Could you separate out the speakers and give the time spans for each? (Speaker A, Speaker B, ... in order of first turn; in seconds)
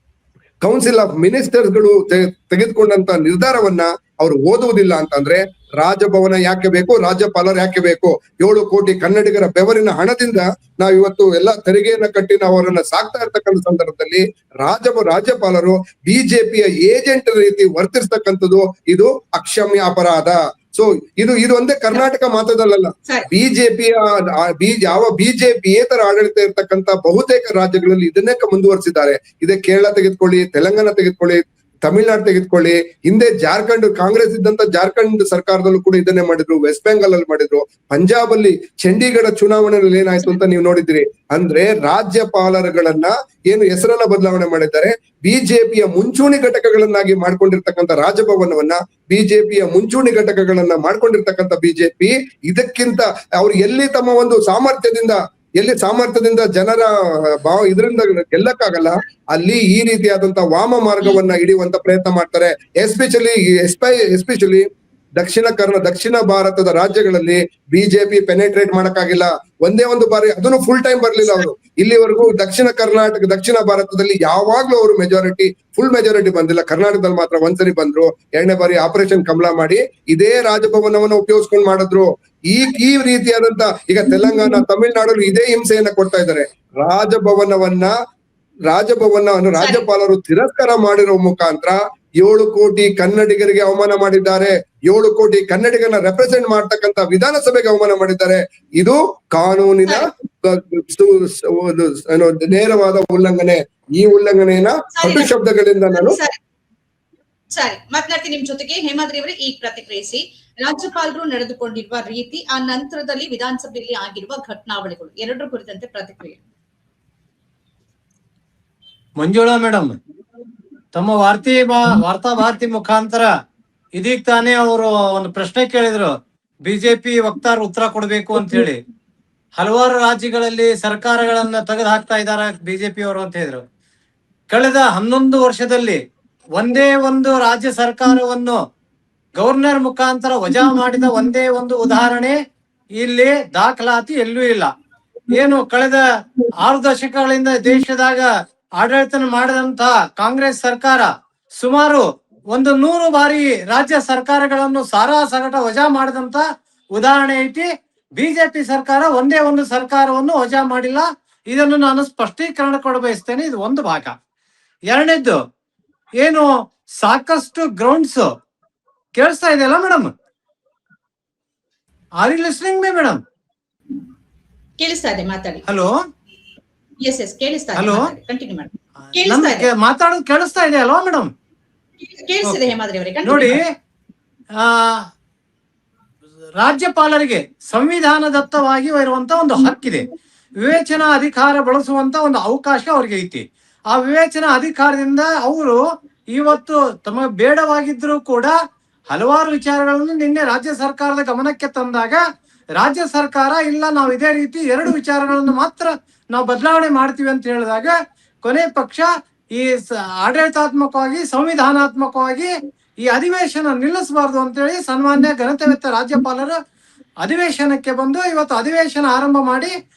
Speaker A: 0.6-64.7, 65.2-87.9, 88.7-106.2
Speaker B: 89.6-89.9, 105.0-105.3, 105.9-106.4, 107.5-116.4, 174.8-175.7, 177.0-179.7, 182.0-183.6
Speaker C: 119.2-120.0, 120.9-123.3, 124.0-126.1, 126.6-128.8, 129.6-133.6, 134.5-136.0, 136.6-138.6, 139.4-142.4, 143.0-144.7, 145.3-146.0, 146.6-164.1, 164.9-165.4, 166.2-166.5, 167.0-168.3, 169.2-170.1, 172.2-173.2, 175.7-175.9, 177.8-178.1, 179.1-181.3, 183.2-183.7, 184.6-185.1, 186.6-195.8, 196.3-198.5, 199.1-202.2, 202.8-212.5, 213.0-216.6, 217.2-219.7